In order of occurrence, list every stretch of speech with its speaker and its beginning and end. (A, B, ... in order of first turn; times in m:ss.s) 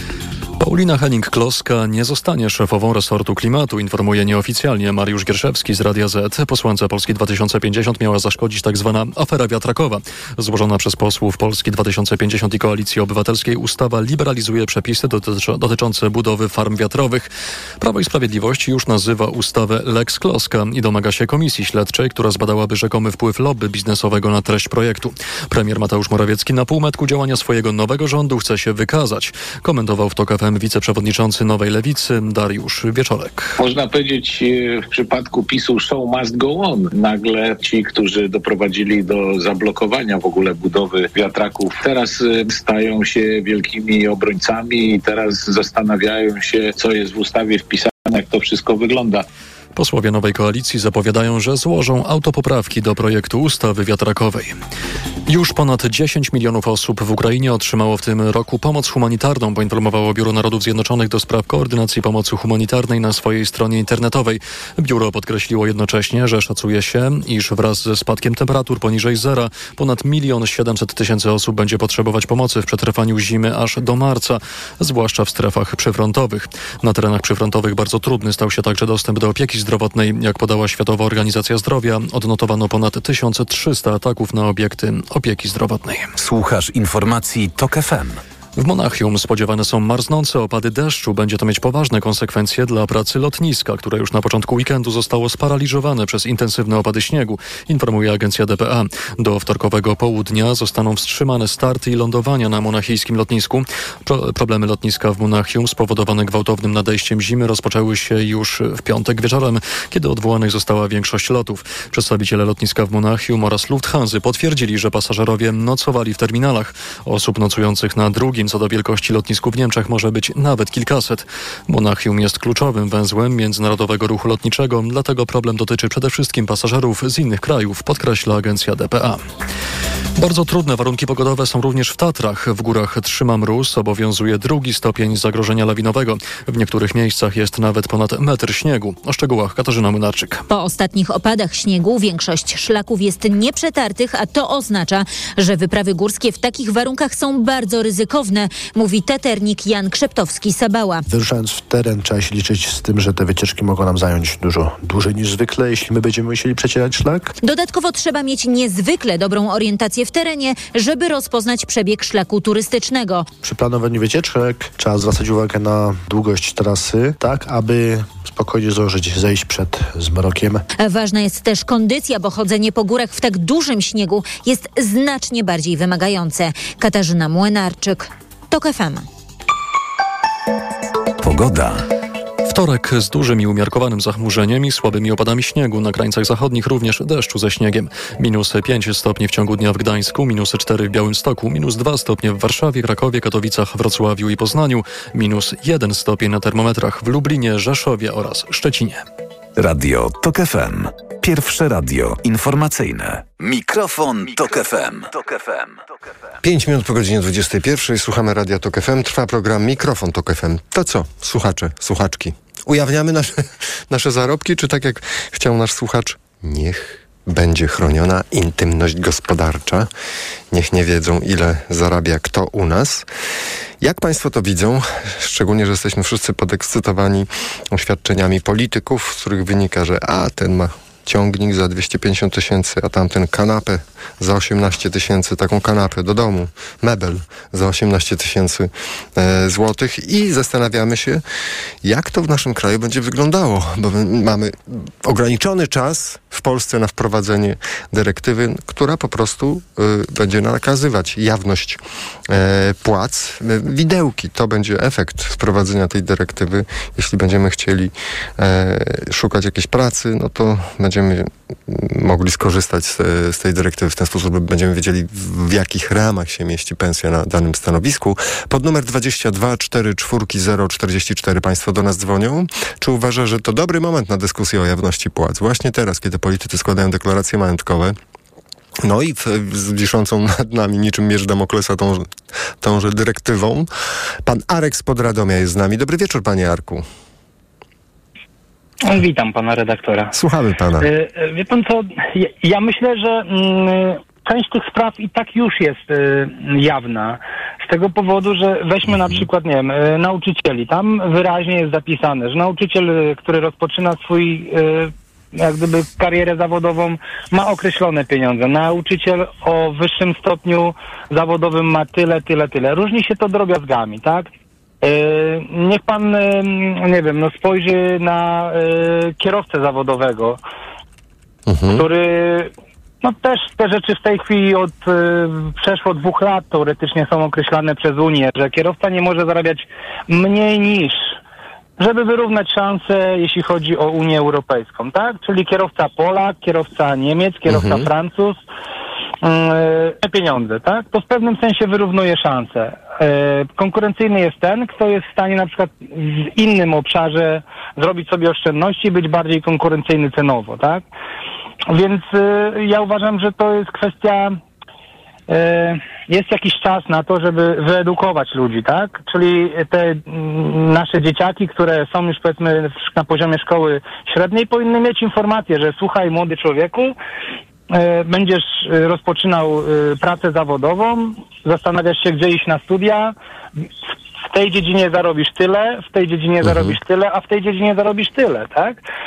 0:00.6-0:33.5 A
0:33.6-0:49.2 B
0:49.8-0:54.6 A
0:55.3-1:26.1 A
1:26.2-1:28.2 C
1:28.6-2:09.2 A
2:10.2-2:20.4 A
2:20.5-2:31.0 D
2:31.1-2:37.3 E
2:37.4-2:43.3 D
2:43.4-2:50.6 E
2:50.8-2:59.0 D
3:01.2-3:01.8 C
3:02.4-3:19.0 A
3:19.6-3:25.9 C
3:26.4-3:39.9 F
3:40.5-3:43.1 F
3:43.8-4:01.2 F
4:01.8-4:38.0 F
4:38.8-4:43.7 F
4:44.2-4:46.8 F
4:48.8-4:50.2 G
4:50.1-4:50.9 F
4:50.8-5:14.3 G
5:14.8-5:20.4 G
5:21.5-5:21.8 F
5:21.7-5:22.5 G
5:23.0-5:31.1 G
5:31.8-5:38.4 G
5:37.5-5:37.8 F
5:39.2-5:50.8 G
5:51.7-5:54.4 G
5:55.3-6:06.9 G
6:07.7-6:13.1 G
6:14.3-6:18.8 G